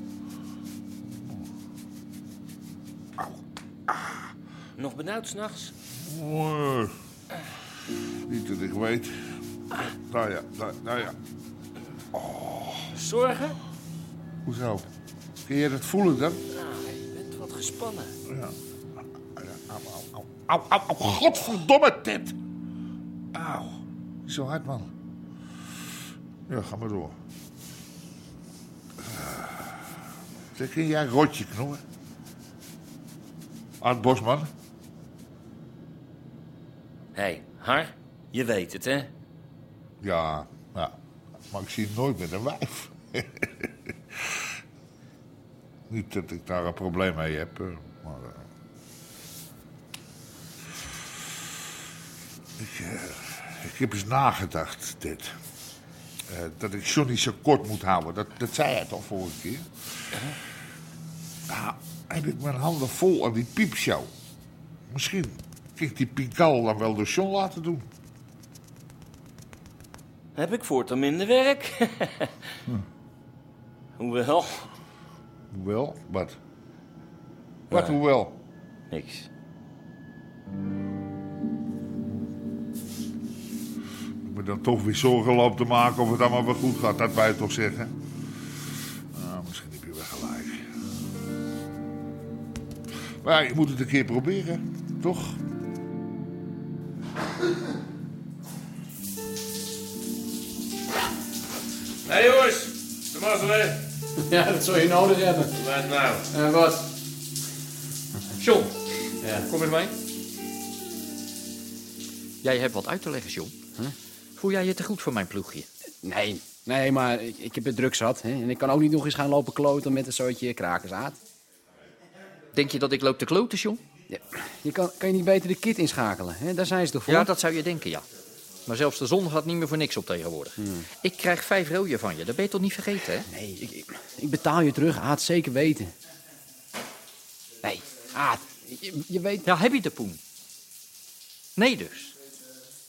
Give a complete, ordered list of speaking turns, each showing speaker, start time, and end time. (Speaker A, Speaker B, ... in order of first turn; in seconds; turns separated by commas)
Speaker A: 4.8-5.7, Speaker B: 6.1-6.9, Speaker B: 8.3-9.1, Speaker B: 10.1-11.2, Speaker B: 12.1-12.8, Speaker A: 12.9-13.6, Speaker B: 14.5-14.9, Speaker B: 15.5-16.4, Speaker A: 16.6-18.1, Speaker B: 19.4-22.3, Speaker B: 23.3-24.9, Speaker B: 26.5-27.2, Speaker B: 29.1-29.7, Speaker B: 30.6-31.8, Speaker B: 33.8-34.5, Speaker A: 37.2-39.1, Speaker B: 40.0-40.9, Speaker B: 41.5-43.5, Speaker B: 45.9-48.4, Speaker B: 52.6-55.3, Speaker B: 56.3-59.7, Speaker B: 61.5-64.1, Speaker B: 64.9-67.8, Speaker A: 70.4-72.1, Speaker A: 74.0-74.7, Speaker B: 75.5-76.4, Speaker A: 77.7-78.0, Speaker B: 77.7-78.3, Speaker A: 78.9-79.3, Speaker B: 84.2-87.9, Speaker B: 89.2-90.6, Speaker B: 93.2-95.4, Speaker A: 102.0-103.8, Speaker C: 104.2-105.5, Speaker A: 105.6-106.2, Speaker C: 106.3-106.9, Speaker D: 108.4-108.7, Speaker D: 109.4-109.9, Speaker D: 112.4-113.5, Speaker D: 114.4-115.7, Speaker C: 116.0-121.2, Speaker D: 122.5-123.8, Speaker C: 124.1-127.3, Speaker D: 127.1-128.0, Speaker D: 128.7-133.3, Speaker C: 133.3-135.9, Speaker C: 137.6-139.5, Speaker D: 139.4-140.2, Speaker D: 141.6-142.1